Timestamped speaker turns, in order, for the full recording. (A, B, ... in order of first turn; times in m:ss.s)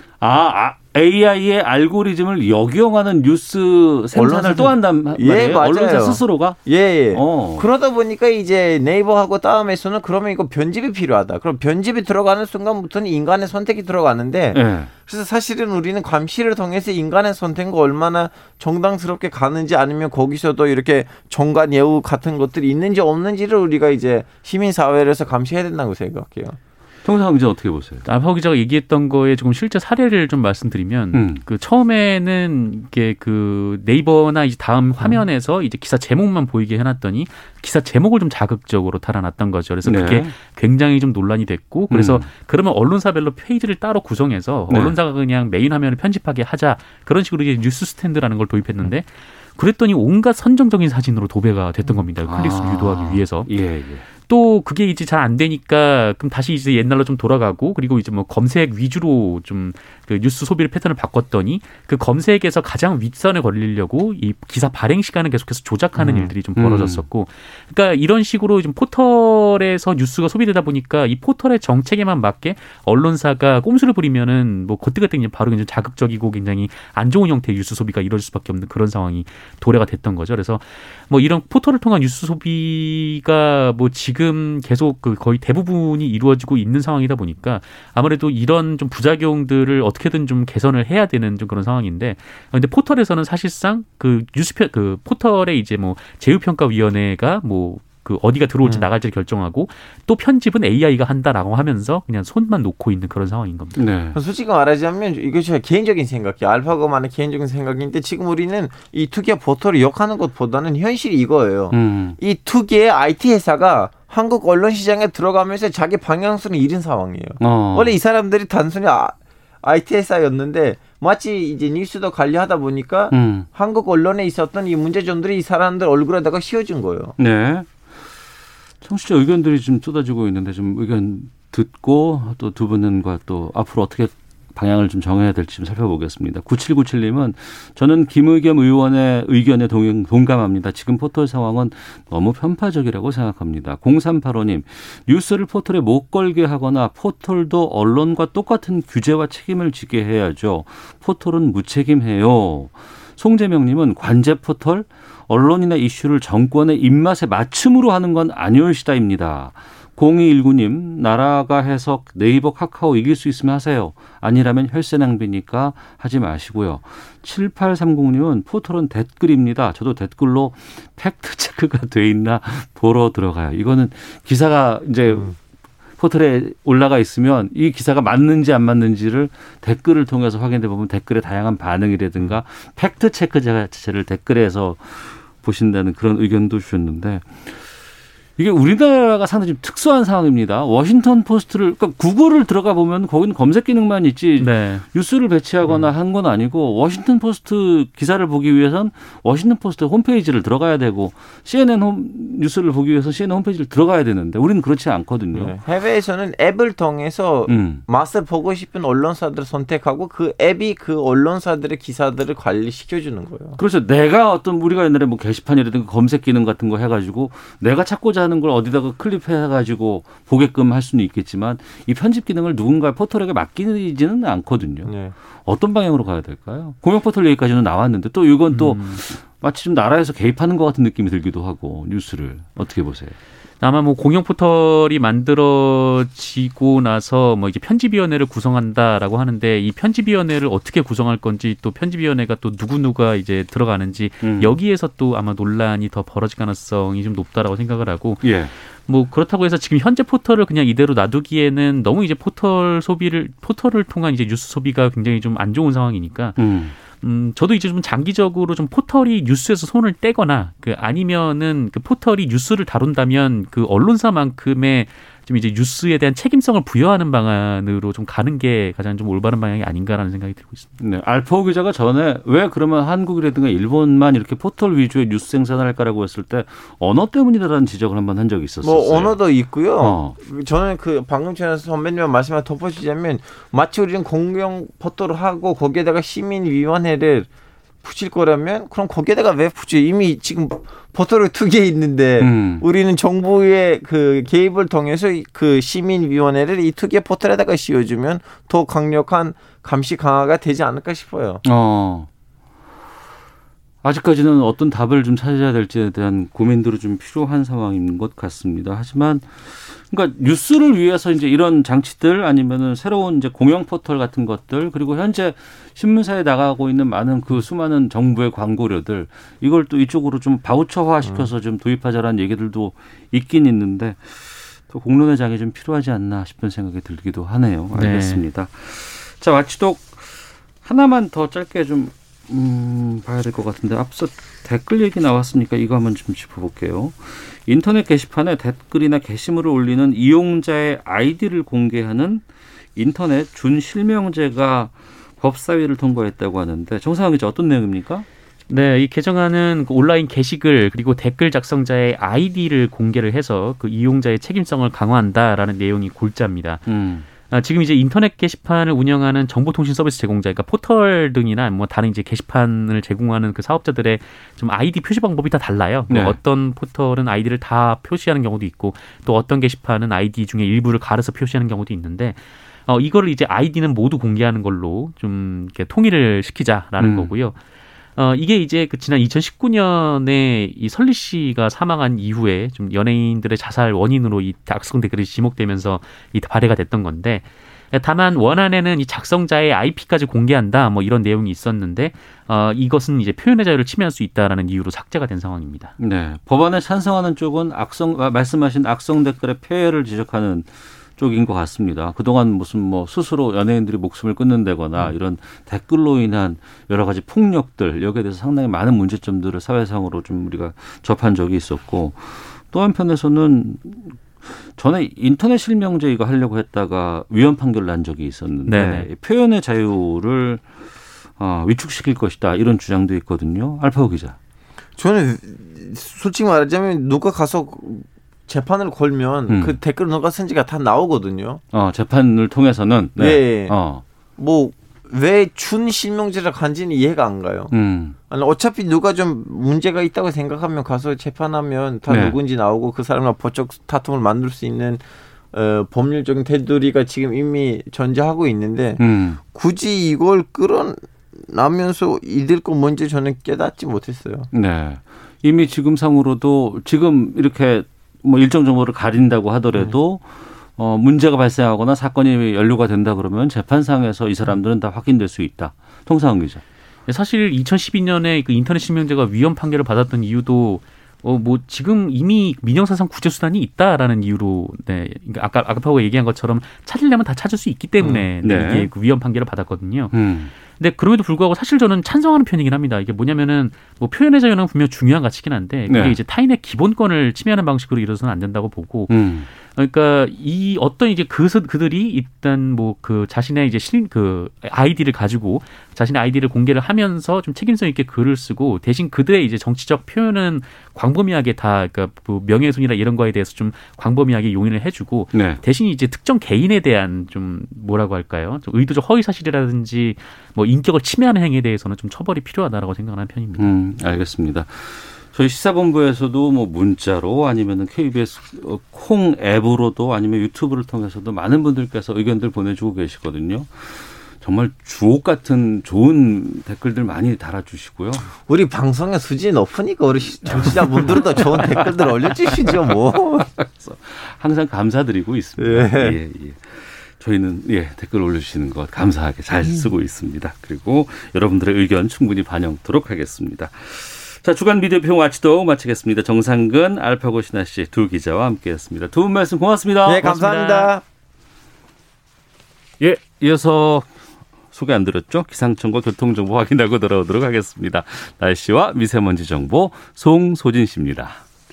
0:00.2-0:06.6 A
0:04.1-0:26.6 B
0:07.1-0:07.7 A
0:14.5-0:14.9 A
0:27.0-0:28.0 A
0:28.0-0:53.5 C
0:31.1-0:31.4 A
0:39.8-0:40.3 A
0:41.9-0:42.3 A
0:44.7-0:45.0 A
0:52.2-0:54.1 A
0:54.1-1:43.8 C
1:06.0-1:07.0 A
1:43.8-1:44.2 A
1:44.1-2:07.1 B
1:51.7-1:52.2 A
1:57.4-1:58.0 A
2:03.1-2:03.5 A
2:07.2-2:07.9 A
2:08.8-2:55.4 A
2:56.0-3:07.7 A
3:08.4-3:25.6 A
3:14.4-3:14.8 C
3:15.7-3:15.9 B
3:25.3-3:33.6 B
3:27.5-3:27.8 A
3:33.6-3:53.2 A
3:44.8-3:45.1 B
3:48.5-3:49.0 C
3:53.6-4:16.4 C
4:04.2-4:04.6 A
4:08.2-4:08.5 A
4:16.4-4:16.7 A
4:16.9-4:30.7 C
4:30.8-4:39.2 A
4:38.6-4:47.3 B
4:39.8-4:40.2 A
4:47.8-5:01.4 B
4:52.2-4:52.6 A
5:01.4-5:02.1 A
5:03.8-5:42.2 A
5:21.0-5:21.3 B
5:27.7-5:28.2 C
5:42.8-5:48.1 A
5:48.5-6:17.4 C
5:56.7-5:57.1 A
6:05.9-6:06.2 A
6:16.8-6:17.1 A
6:18.0-6:35.8 C
6:35.8-7:00.6 A
6:58.5-6:58.9 C
7:01.2-7:04.2 A
7:04.8-7:11.4 B
7:09.3-7:09.6 A
7:11.5-7:13.8 A
7:13.0-7:13.6 B
7:14.2-7:17.5 B
7:17.5-7:18.0 A
7:18.1-7:34.3 B
7:21.9-7:22.2 A
7:28.8-7:29.2 A
7:34.3-7:46.4 A
7:46.9-8:00.0 C
7:57.8-7:58.7 A
7:59.9-8:00.3 A
8:00.5-8:33.5 C
8:05.7-8:06.0 A
8:08.9-8:09.3 A
8:25.1-8:25.4 A
8:33.4-8:48.1 A
8:48.3-8:53.3 B
8:50.3-9:10.7 A
8:55.4-8:56.0 B
9:09.8-9:10.8 B
9:12.8-9:13.9 A
9:14.5-9:21.2 A